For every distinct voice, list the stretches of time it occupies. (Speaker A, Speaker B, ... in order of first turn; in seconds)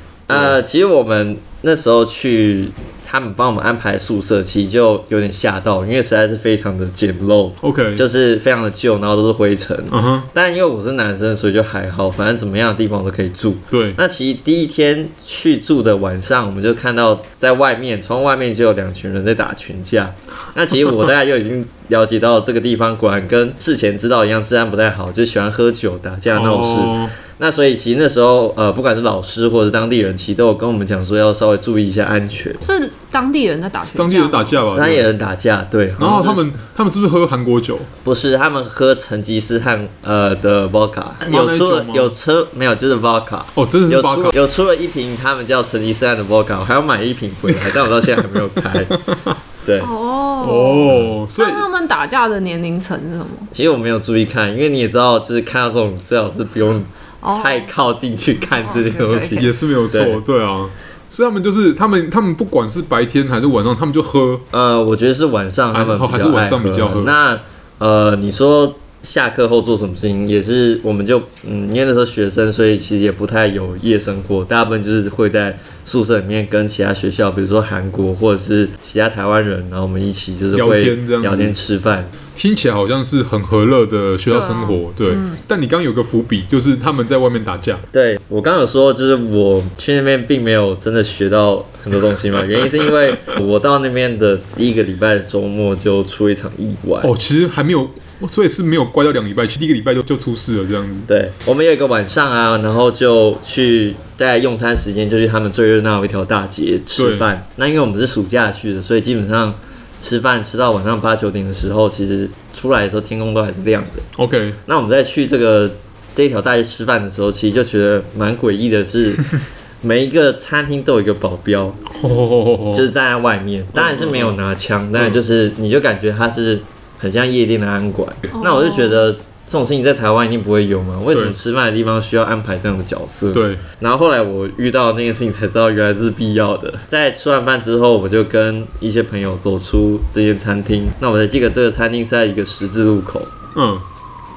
Speaker A: 0.3-32.6, 34.7-36.5, 38.0-49.0, 49.6-49.9, 53.5-60.2, 64.5-82.1, 87.9-97.1, 101.1-114.1, 114.7-121.8, 122.7-143.3
Speaker B: 0.3-0.6, 7.6-8.0, 9.9-10.3, 13.7-14.0, 26.3-27.1, 33.8-35.1, 36.0-37.9, 41.2-42.1, 43.5-44.4, 49.0-49.4, 50.4-51.7, 59.3-64.4, 65.7-67.1, 80.5-81.6, 82.3-87.8, 97.0-101.1, 107.0-107.3, 114.2-114.6, 121.9-122.9, 123.8-124.3, 133.3-133.6, 143.6-143.8
Speaker C: 32.6-34.6, 49.8-53.5, 57.2-57.7, 58.5-59.5, 84.3-85.4, 128.3-128.9